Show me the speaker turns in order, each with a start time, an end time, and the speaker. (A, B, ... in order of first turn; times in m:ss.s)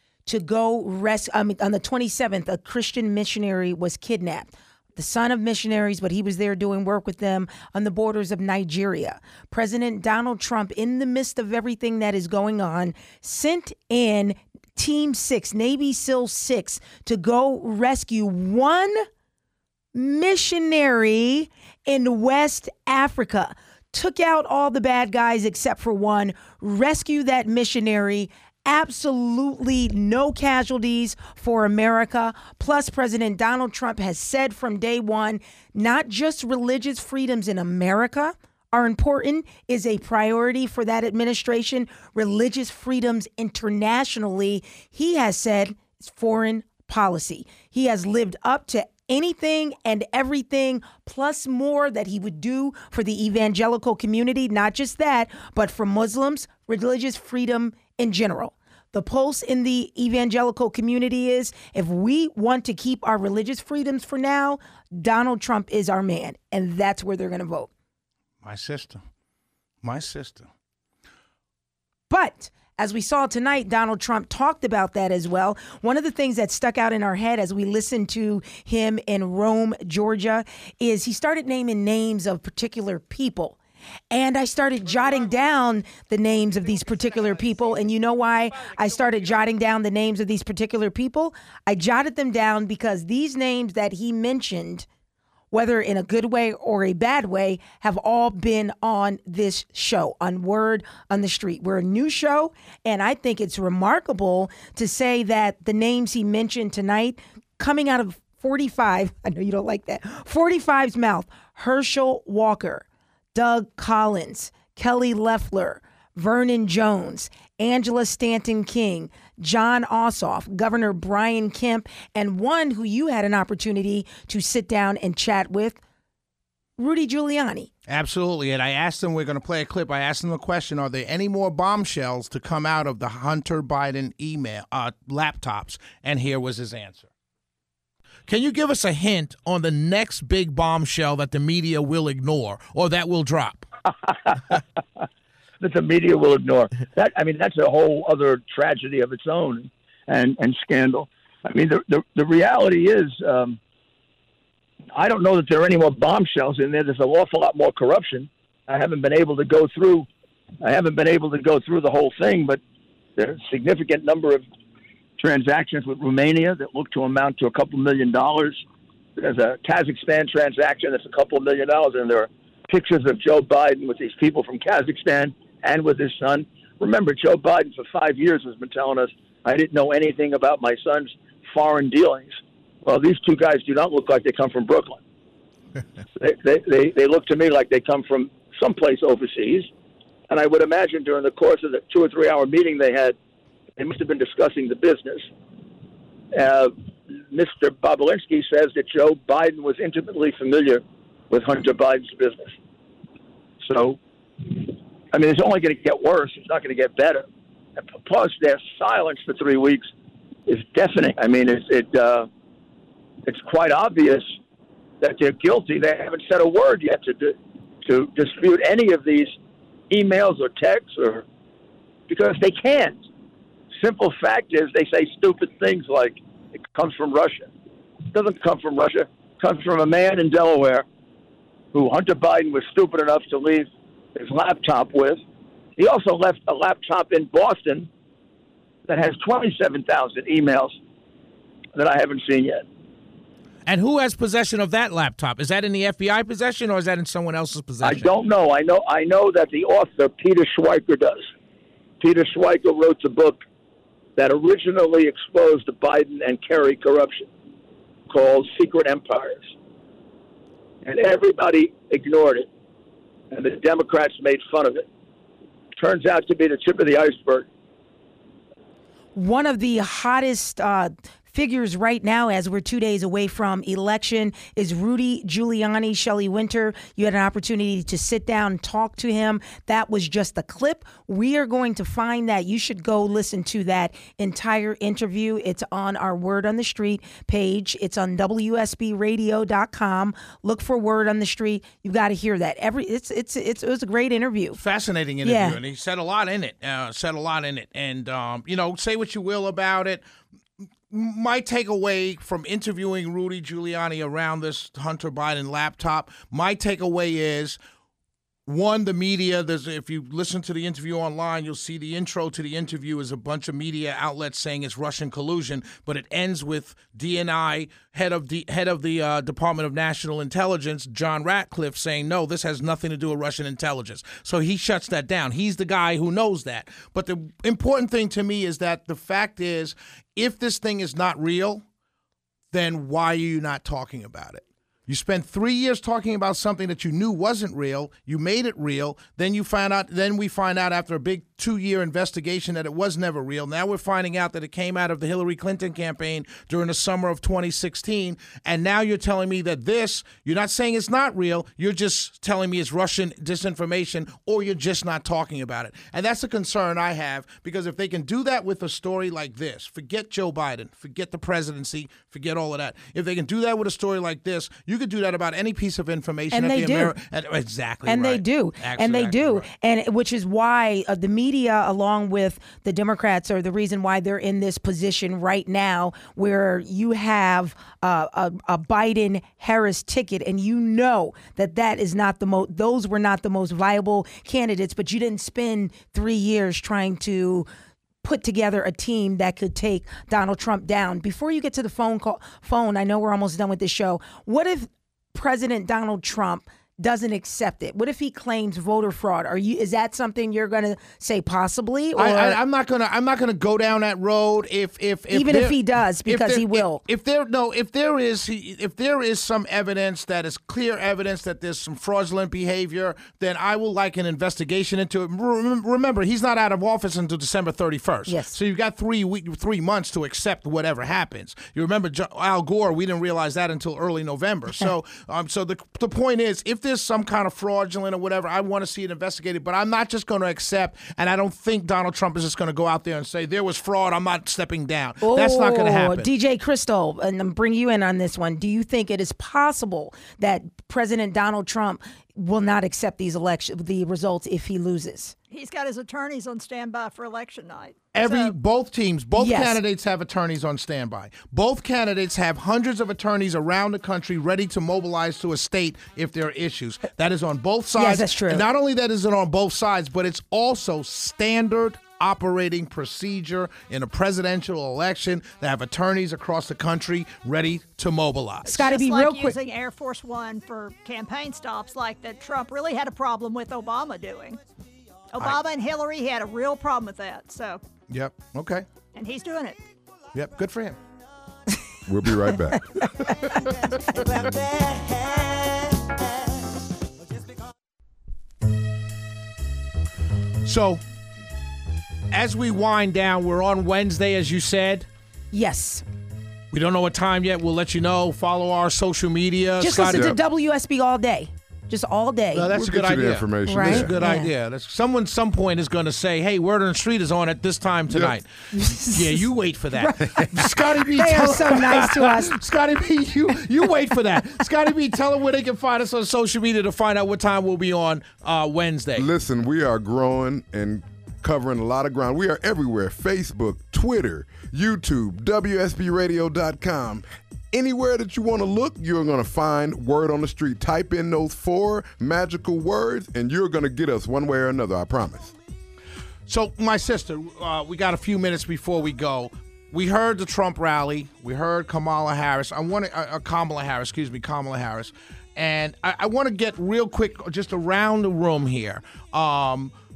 0:00.3-0:19.0 A
0:20.0-1:07.7 A
1:08.4-1:09.0 B
1:09.8-1:10.5 B
1:12.1-1:23.6 A
1:24.1-1:34.9 A
1:35.5-2:05.8 A
2:06.8-2:07.7 A
2:07.9-2:17.1 B
2:18.3-2:23.6 B
2:24.3-2:24.6 C
2:25.6-2:33.6 C
2:34.9-2:40.1 C
2:40.6-2:42.6 C
2:43.2-2:44.4 C
2:45.2-2:48.6 C
2:49.2-3:05.0 C
3:06.2-3:09.7 C
3:10.3-3:13.2 C
3:13.8-3:15.3 C
3:16.3-3:22.6 C
3:23.6-3:27.3 C
3:27.8-3:29.9 C
3:30.5-3:32.3 C
3:33.3-3:34.3 C
3:35.0-3:39.4 C
3:39.9-3:41.2 C
3:42.1-3:43.0 C
3:43.8-3:46.2 C
3:46.7-3:47.5 C
3:48.1-3:50.8 C
3:51.7-3:55.2 C
3:55.8-3:57.9 C
3:58.9-4:00.8 C
4:01.8-4:02.6 C
4:03.6-4:08.1 B
4:07.8-4:11.3 C
4:12.0-4:13.4 C
4:14.2-4:17.3 C
4:18.1-4:19.5 C
4:20.8-4:22.5 C
4:23.3-4:24.9 C
4:25.8-4:27.5 C
4:29.1-4:54.6 A
4:54.6-5:00.0 B
4:55.2-4:55.6 A
5:00.9-5:07.6 B
5:08.5-5:31.6 B
5:32.5-6:09.5 B
6:06.3-6:06.9 A
6:07.9-6:27.5 A
6:28.0-6:42.4 A
6:42.0-7:16.1 B
6:45.1-6:46.8 A
6:58.1-6:58.4 A
7:15.0-7:25.1 A
7:25.3-7:28.3 D
7:27.9-7:48.5 B
7:29.2-7:29.6 A
7:37.8-7:38.4 A
7:48.5-7:49.4 A
7:48.5-7:54.4 D
7:55.1-7:57.6 D
7:57.9-7:58.6 B
7:59.0-7:59.6 D
8:00.1-8:00.8 B
8:01.9-8:03.2 E
8:10.4-8:10.8 B
8:12.1-8:14.9 B
8:15.3-8:15.8 A
8:16.5-8:20.2 B
8:19.6-8:22.5 A
8:19.9-8:20.2 E
8:22.4-8:39.1 B
8:22.5-8:23.9 E
8:23.5-8:24.3 A
8:28.5-8:29.2 A
8:29.8-8:32.3 A
8:39.0-8:55.3 E
8:56.3-9:09.7 B